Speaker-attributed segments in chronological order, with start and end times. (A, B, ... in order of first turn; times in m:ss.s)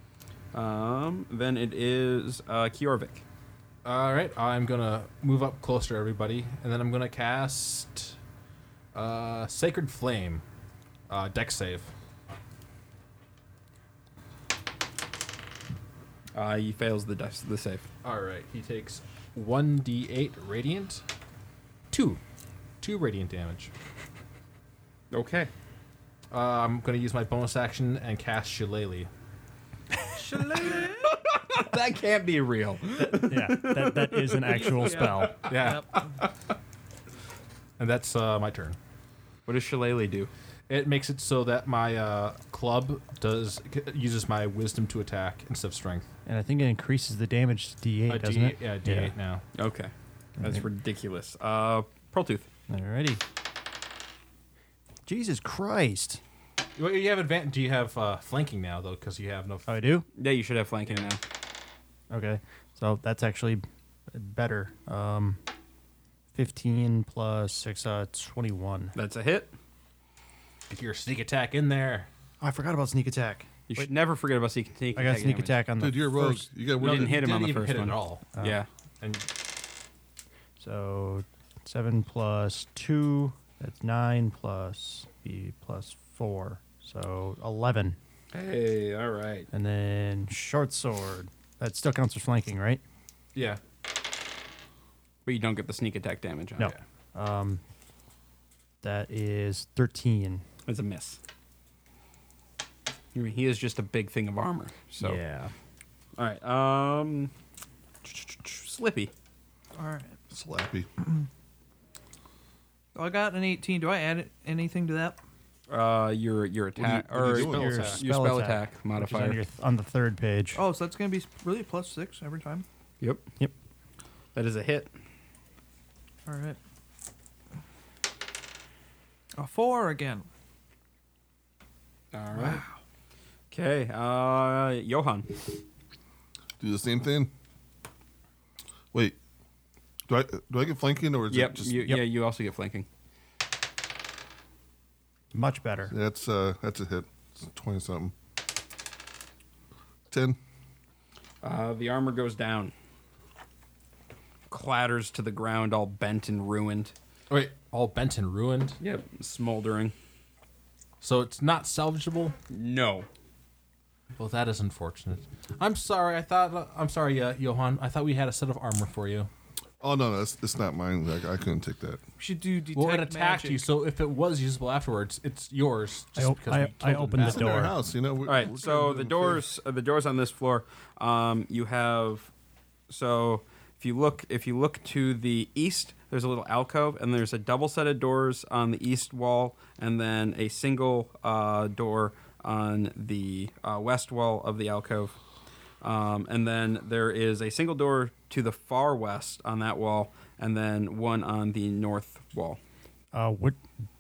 0:00.5-0:03.2 A
0:03.8-0:08.2 B
0:08.9-0:10.4 B
0:11.1-0:11.9 B
0:16.3-0:17.9 A
0:18.0-0:21.0 B
0:21.9-0:22.2 B
0:22.8-0:23.7 B
0:25.1-0:25.5 A
0:26.3-0:29.1 B
0:30.2-0:31.1 C
0:30.6-0:35.3 A
0:33.2-0:35.4 D
0:34.6-0:36.2 C
0:35.5-0:35.9 B
0:37.8-0:38.8 B
0:39.5-0:40.3 A
0:40.7-0:46.1 B
0:46.3-0:49.1 D
0:48.1-0:49.4 B
0:49.6-0:52.5 A
0:50.4-0:50.6 D
0:52.7-0:53.2 D
0:55.1-0:56.2 D
0:56.8-0:59.7 B
0:59.7-1:00.1 D
1:00.2-1:01.2 A
1:02.1-1:05.4 D
1:06.3-1:09.0 D
1:09.0-1:09.6 A
1:10.7-1:12.1 B
1:12.4-1:13.9 D
1:13.7-1:15.6 A
1:14.9-1:16.5 D
1:15.8-1:17.2 E
1:16.8-1:18.3 B
1:16.8-1:18.7 A
1:19.0-1:19.3 B
1:20.6-1:28.0 D
1:28.3-1:29.5 A
1:29.5-1:32.8 D
1:33.4-1:33.6 B
1:35.3-1:36.8 A
1:36.6-1:37.6 D
1:38.8-1:40.4 D
1:40.7-1:41.2 A
1:43.1-1:45.2 A
1:45.0-1:45.5 D
1:46.2-1:47.3 A
1:48.0-1:49.1 A
1:49.8-1:50.2 C
1:50.3-1:50.9 E
1:53.0-1:55.2 C
1:55.7-1:59.4 A
1:56.8-1:57.9 E
1:57.2-2:00.6 D
1:57.3-1:58.0 B
2:00.6-2:02.6 C
2:03.0-2:03.3 A
2:04.4-2:04.9 A
2:06.3-2:06.6 C
2:09.4-2:10.3 C
2:12.1-2:12.6 A
2:12.4-2:12.7 C
2:13.5-2:15.6 A
2:16.6-2:17.3 E
2:20.1-2:21.9 E
2:21.3-2:22.9 A
2:25.3-2:25.9 D
2:25.9-2:28.1 E
2:30.1-2:30.4 E
2:31.4-2:32.7 A
2:34.5-2:36.9 A
2:37.3-2:38.8 B
2:38.8-2:40.0 A
2:41.0-2:42.4 B
2:42.5-2:43.1 A
2:44.2-2:49.3 B
2:49.8-2:52.0 E
2:52.2-2:53.7 C
2:52.7-2:57.6 B
2:56.2-2:57.8 D
2:57.2-2:59.4 E
2:58.2-3:02.3 A
3:02.9-3:15.2 A
3:15.8-3:22.6 A
3:23.1-3:23.6 D